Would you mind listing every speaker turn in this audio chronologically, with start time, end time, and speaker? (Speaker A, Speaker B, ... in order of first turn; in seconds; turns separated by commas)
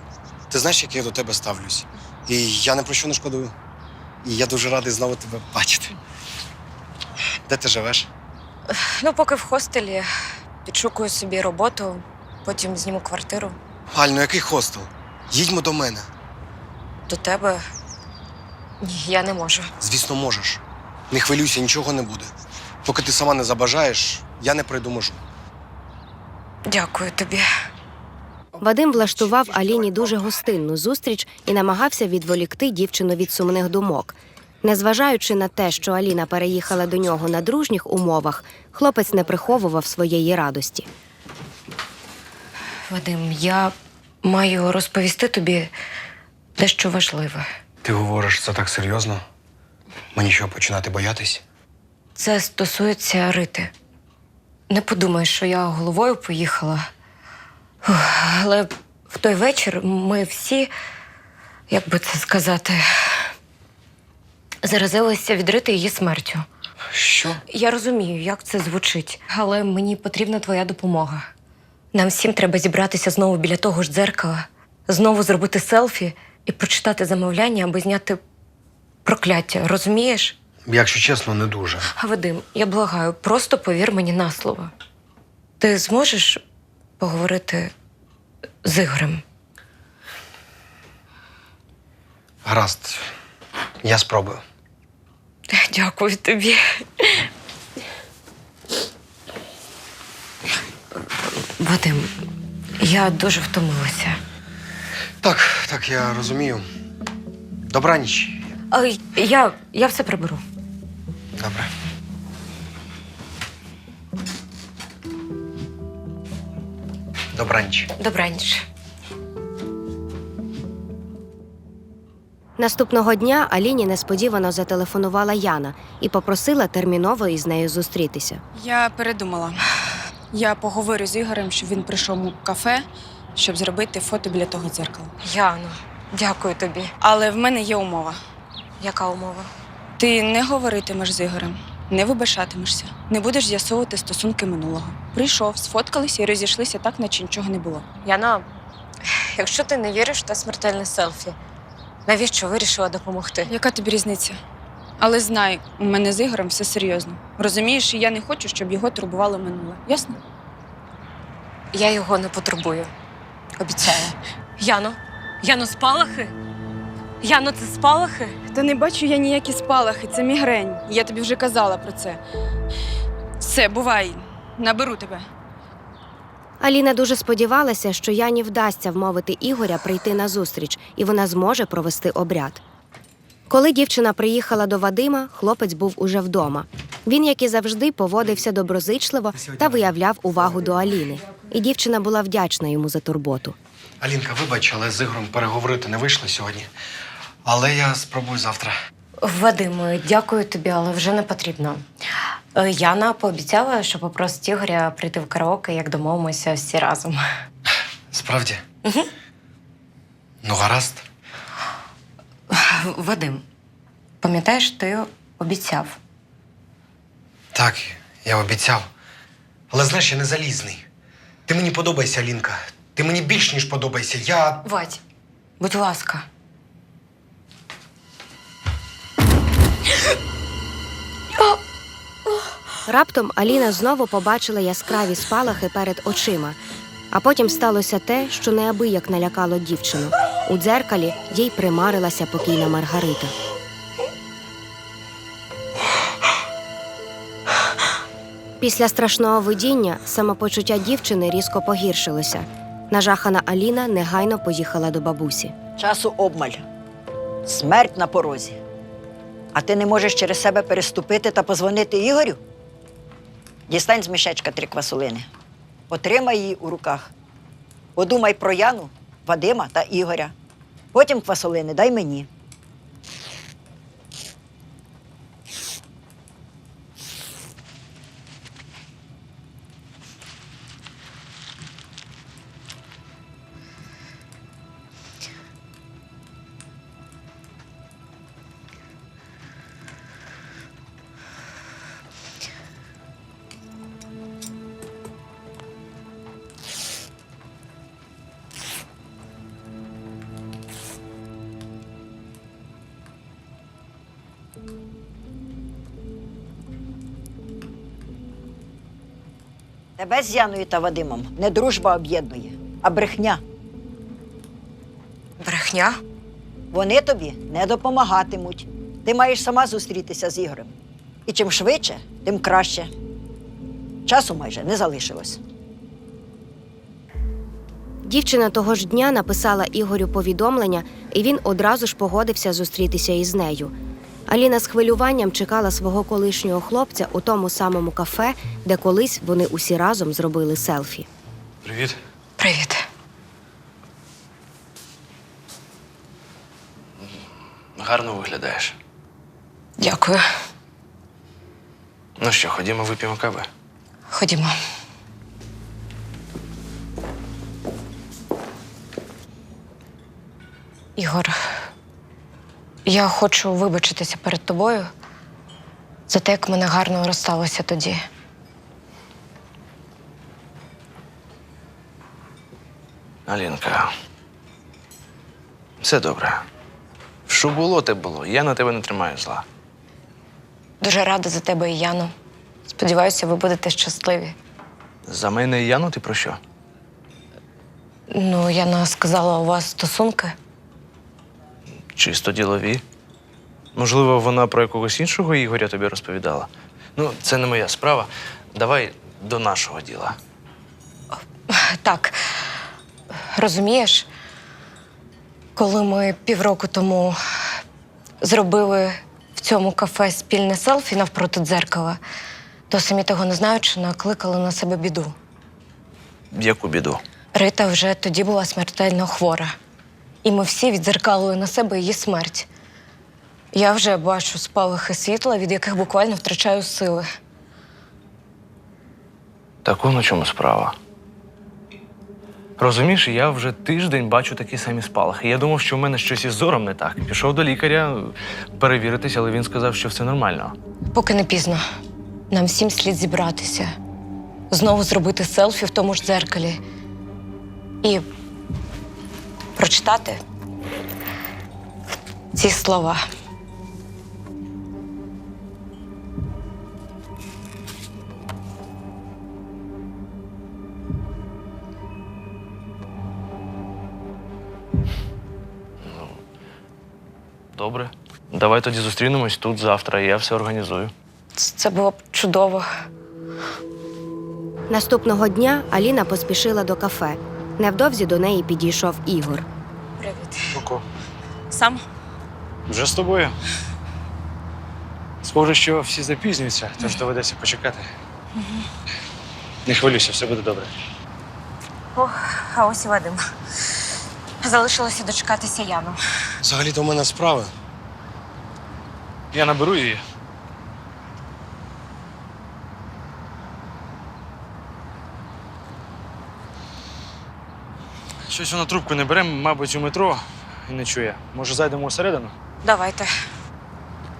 Speaker A: 0.5-3.5, Speaker A: 4.2-5.9, Speaker A: 7.5-8.1, Speaker B: 8.7-10.0, Speaker B: 10.6-13.6, Speaker A: 13.9-16.1, Speaker B: 17.1-17.6, Speaker B: 18.8-19.7, Speaker A: 19.8-22.3, Speaker A: 22.8-25.2, Speaker B: 26.7-27.5, Speaker C: 28.6-40.9, Speaker B: 42.9-45.7, Speaker B: 46.6-47.4, Speaker A: 47.8-49.2, Speaker A: 50.1-51.4, Speaker B: 52.2-53.7, Speaker B: 54.7-56.9, Speaker B: 57.8-60.7, Speaker B: 61.7-63.3, Speaker B: 64.6-66.4, Speaker A: 66.9-67.4, Speaker B: 67.5-71.3, Speaker B: 71.9-78.2, Speaker B: 79.0-80.3, Speaker A: 80.7-81.9, Speaker B: 81.9-84.7, Speaker B: 85.6-86.4, Speaker B: 87.0-87.7, Speaker B: 88.6-89.2, Speaker A: 92.4-93.0, Speaker A: 93.8-94.4, Speaker B: 95.5-97.3, Speaker B: 101.6-102.1, Speaker B: 102.8-104.2, Speaker A: 105.2-106.6, Speaker A: 107.7-108.5, Speaker B: 108.7-110.4, Speaker A: 111.3-111.7, Speaker A: 117.3-117.9, Speaker B: 118.0-118.6, Speaker C: 122.6-128.4, Speaker D: 128.6-129.6, Speaker D: 130.3-135.1, Speaker B: 135.2-136.9, Speaker D: 137.0-138.2, Speaker B: 138.8-139.5, Speaker D: 140.0-147.8, Speaker B: 148.0-148.4, Speaker B: 149.3-151.3, Speaker B: 152.1-153.5, Speaker D: 153.5-154.4, Speaker D: 155.0-160.2, Speaker B: 161.7-162.9, Speaker B: 163.6-166.3, Speaker B: 167.2-168.4, Speaker D: 168.5-172.2, Speaker D: 173.4-175.3, Speaker C: 176.6-182.6, Speaker C: 183.5-193.6, Speaker A: 189.3-189.9, Speaker A: 194.0-196.7, Speaker A: 197.4-198.7, Speaker B: 199.2-201.8, Speaker B: 202.5-207.2, Speaker A: 208.1-208.6, Speaker A: 210.4-211.0, Speaker B: 212.5-213.4, Speaker B: 214.2-216.0, Speaker A: 217.5-218.9, Speaker A: 219.7-220.8, Speaker A: 221.5-224.6, Speaker B: 224.6-225.0, Speaker B: 225.6-226.2, Speaker C: 232.8-236.6, Speaker C: 237.1-243.3, Speaker C: 248.6-255.5, Speaker E: 255.8-256.6, Speaker E: 257.4-258.6, Speaker E: 259.5-262.4, Speaker E: 263.7-265.3, Speaker E: 265.9-267.1, Speaker E: 267.9-270.3, Speaker E: 270.9-272.3, Speaker E: 310.0-313.4, Speaker B: 315.4-316.0, Speaker E: 316.7-320.7, Speaker E: 321.3-322.9, Speaker E: 324.1-325.4, Speaker C: 328.0-333.7, Speaker C: 334.3-341.1, Speaker F: 341.6-342.0, Speaker B: 342.4-342.9, Speaker F: 347.8-348.7, Speaker B: 349.8-350.2, Speaker F: 352.2-353.5, Speaker B: 354.1-354.5, Speaker B: 360.9-361.3, Speaker B: 362.8-364.9, Speaker B: 366.1-368.0, Speaker F: 373.3-373.9, Speaker F: 375.8-376.4, Speaker F: 377.3-379.4, Speaker B: 380.8-382.1, Speaker B: 382.7-384.4, Speaker F: 385.1-386.4, Speaker B: 388.1-390.4, Speaker F: 391.9-392.8, Speaker F: 393.7-400.2, Speaker B: 401.5-402.4, Speaker B: 403.3-404.1, Speaker B: 405.6-407.2, Speaker B: 408.2-412.0, Speaker B: 412.7-415.1, Speaker F: 416.3-417.0, Speaker B: 417.3-419.5, Speaker B: 420.2-422.5, Speaker B: 423.5-427.0, Speaker F: 429.6-430.7, Speaker F: 432.6-440.5, Speaker B: 440.9-441.6, Speaker B: 442.3-443.7, Speaker B: 444.5-446.6, Speaker B: 449.6-450.2, Speaker B: 452.3-453.0, Speaker F: 465.8-466.2, Speaker F: 467.5-470.9, Speaker B: 471.4-472.7, Speaker C: 474.7-479.4, Speaker B: 480.0-480.5, Speaker F: 480.5-480.8, Speaker D: 481.5-481.8, Speaker F: 482.7-483.4, Speaker F: 485.2-487.9, Speaker F: 489.6-490.7, Speaker B: 491.9-493.2, Speaker B: 494.4-496.0, Speaker A: 496.4-497.5, Speaker F: 499.3-500.0, Speaker F: 508.3-512.3, Speaker B: 512.6-513.1